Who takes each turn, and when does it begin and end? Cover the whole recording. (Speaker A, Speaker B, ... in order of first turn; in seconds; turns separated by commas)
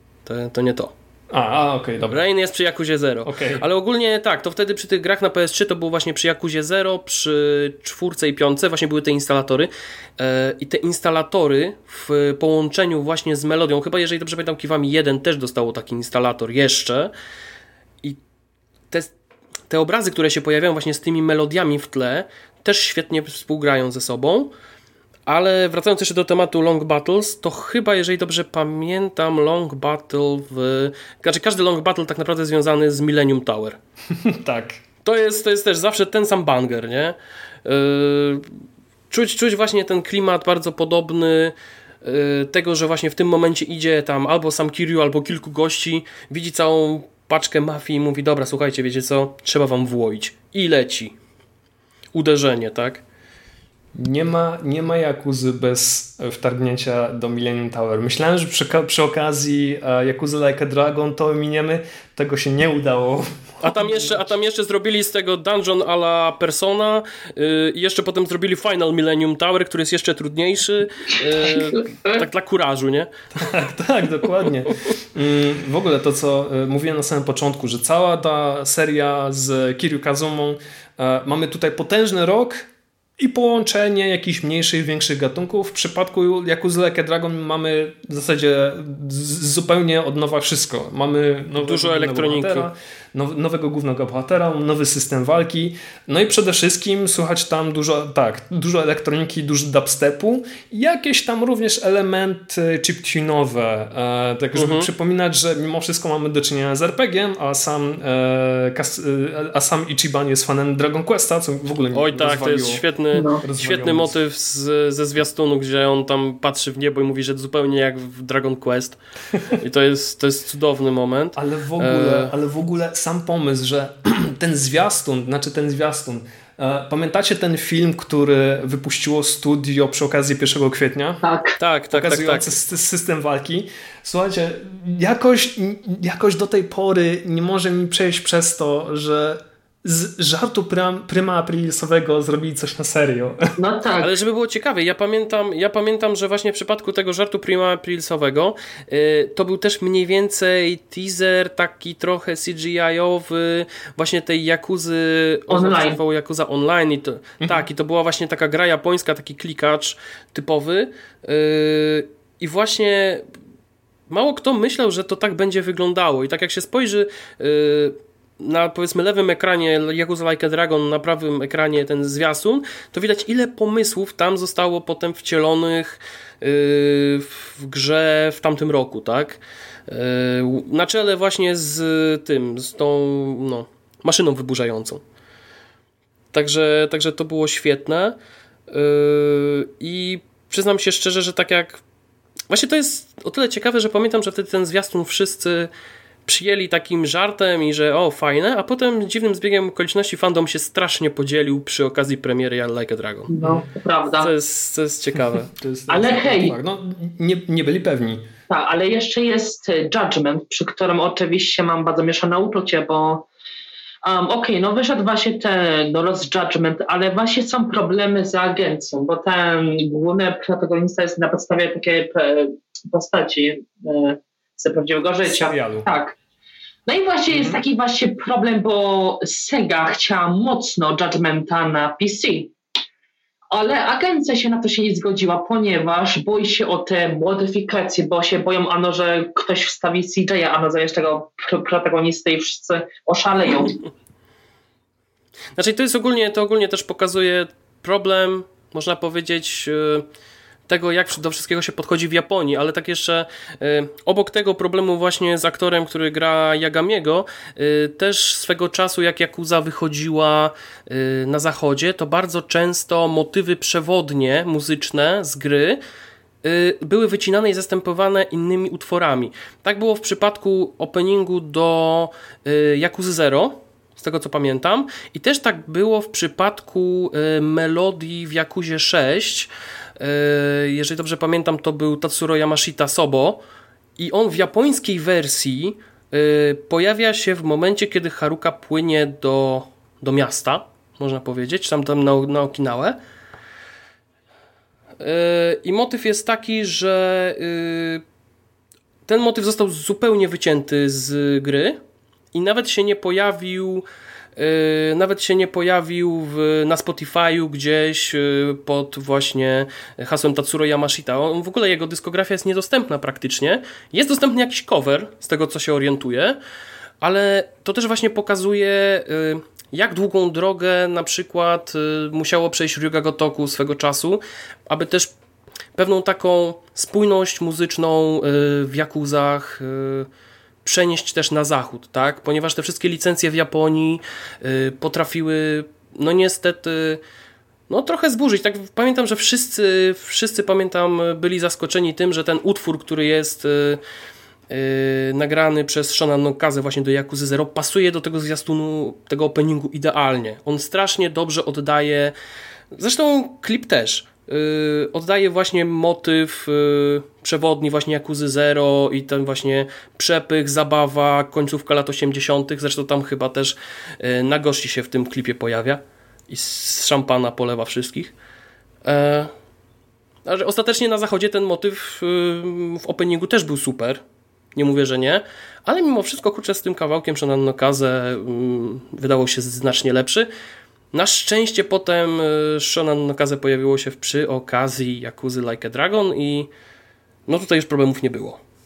Speaker A: 0.2-0.9, Speaker B: 1.3-2.2, Speaker A: 2.1-17.1, Speaker B: 3.2-3.6, Speaker A: 19.7-24.5, Speaker A: 25.3-33.8, Speaker B: 34.2-34.8, Speaker A: 35.0-38.4, Speaker A: 39.1-51.1, Speaker A: 52.1-53.0, Speaker B: 53.9-64.3, Speaker A: 63.6-73.1, Speaker C: 71.4-72.2, Speaker B: 73.3-112.8, Speaker A: 91.5-92.7, Speaker A: 104.5-104.9, Speaker A: 111.9-122.3, Speaker C: 113.1-113.4, Speaker B: 113.4-114.2, Speaker B: 121.3-131.2, Speaker C: 131.2-131.6, Speaker A: 131.6-132.5, Speaker B: 131.9-143.5, Speaker C: 143.6-144.1, Speaker A: 144.0-163.2, Speaker C: 155.5-156.0, Speaker A: 164.1-185.0, Speaker A: 186.3-188.2, Speaker A: 188.7-191.8, Speaker A: 192.5-195.7, Speaker A: 196.3-203.3, Speaker C: 203.3-204.3, Speaker A: 204.2-205.5, Speaker B: 205.5-208.2, Speaker C: 205.9-206.6, Speaker C: 208.5-213.2, Speaker C: 214.0-226.2, Speaker B: 225.2-225.9, Speaker C: 226.9-232.5, Speaker B: 227.3-227.6, Speaker C: 233.5-243.8, Speaker A: 245.6-250.1, Speaker A: 250.7-265.8, Speaker A: 266.4-283.4, Speaker A: 284.0-293.0, Speaker A: 295.0-298.0, Speaker A: 299.1-301.8, Speaker A: 302.3-303.8, Speaker A: 304.4-316.4, Speaker A: 317.0-325.1, Speaker A: 325.8-330.1, Speaker A: 330.6-337.0, Speaker A: 337.7-343.8, Speaker A: 344.5-352.1, Speaker A: 352.7-368.1, Speaker A: 368.8-369.3, Speaker A: 370.2-374.0, Speaker A: 374.6-380.3, Speaker A: 380.9-386.5, Speaker A: 387.3-388.4